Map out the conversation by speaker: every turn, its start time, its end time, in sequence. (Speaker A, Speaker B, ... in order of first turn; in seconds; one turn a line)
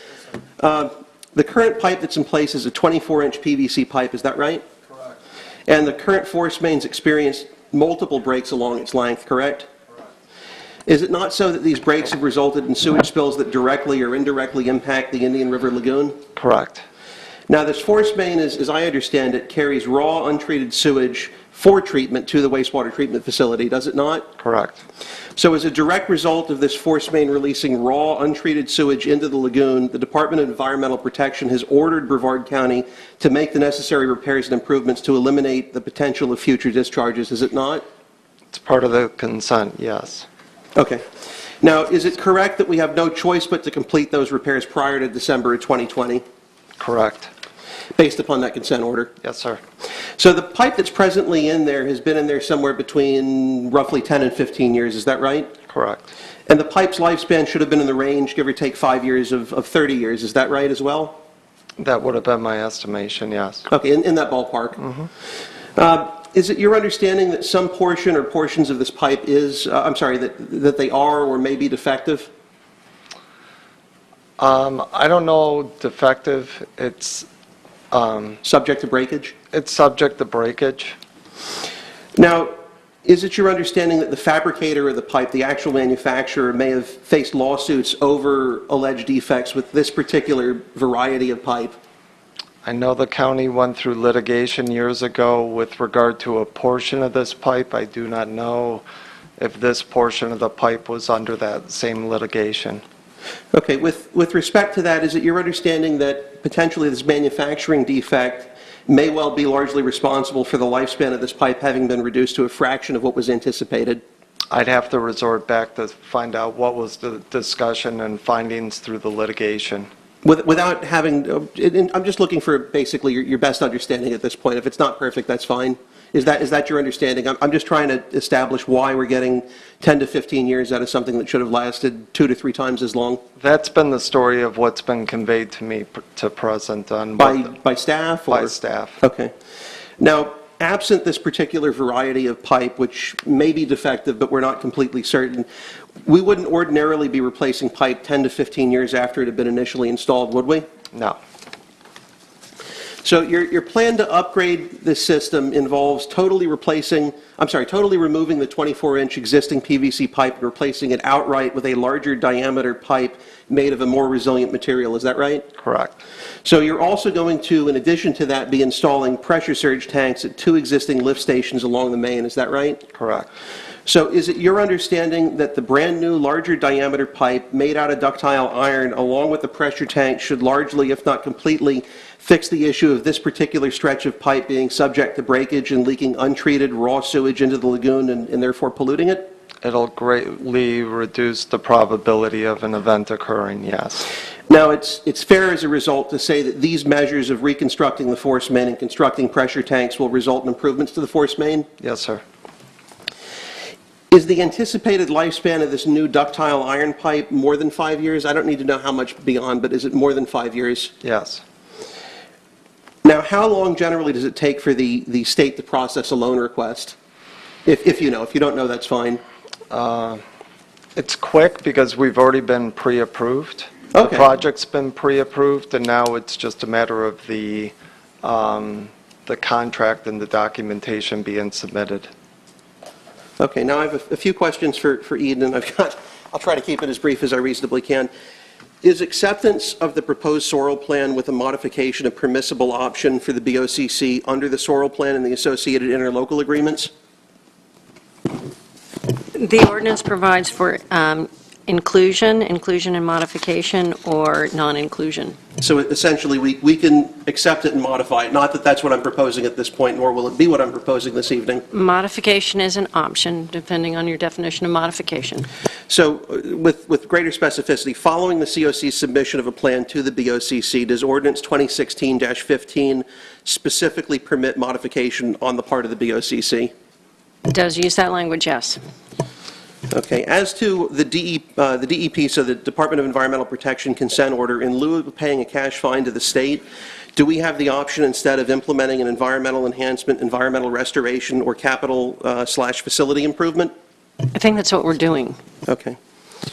Speaker A: 0.6-4.6
Speaker A: 5.7-9.7
Speaker A: 10.9-16.2
Speaker B: 16.4-16.8
Speaker A: 17.5-24.3
Speaker B: 24.4-24.8
Speaker A: 25.4-37.8
Speaker B: 38.5-40.3
Speaker A: 40.8-41.0
Speaker A: 41.6-46.2
Speaker B: 46.8-47.3
Speaker A: 48.0-49.1
Speaker B: 49.2-49.6
Speaker A: 50.2-55.5
Speaker B: 55.7-56.1
Speaker A: 56.5-61.2
Speaker B: 61.8-63.7
Speaker A: 63.7-64.8
Speaker B: 64.8-65.1
Speaker A: 65.8-72.3
Speaker B: 74.4-77.3
Speaker B: 77.9-78.4
Speaker A: 78.4-79.3
Speaker B: 79.5-80.9
Speaker A: 82.2-82.5
Speaker A: 83.0-91.8
Speaker B: 92.6-98.8
Speaker B: 99.4-102.8
Speaker A: 103.5-114.0
Speaker B: 114.5-119.9
Speaker A: 120.2-133.2
Speaker B: 133.4-137.5
Speaker A: 137.2-139.3
Speaker B: 138.3-139.0
Speaker A: 140.0-145.5
Speaker A: 146.0-150.7
Speaker A: 153.0-165.5
Speaker B: 165.6-165.9
Speaker A: 166.4-172.8
Speaker B: 172.9-173.3
Speaker A: 173.9-189.3
Speaker B: 189.6-194.1
Speaker A: 194.5-201.7
Speaker B: 201.8-202.2
Speaker A: 204.1-210.9
Speaker B: 211.0-211.4
Speaker A: 213.0-217.0
Speaker A: 217.7-219.2
Speaker B: 219.7-220.2
Speaker B: 221.0-232.1
Speaker A: 223.9-224.3
Speaker A: 233.4-238.1
Speaker A: 238.8-246.9
Speaker C: 249.3-255.4
Speaker A: 255.6-261.7
Speaker C: 261.7-265.5
Speaker A: 265.9-276.7
Speaker C: 277.5-278.8
Speaker A: 279.9-286.6
Speaker A: 287.2-293.7
Speaker C: 294.2-295.4
Speaker A: 295.7-296.0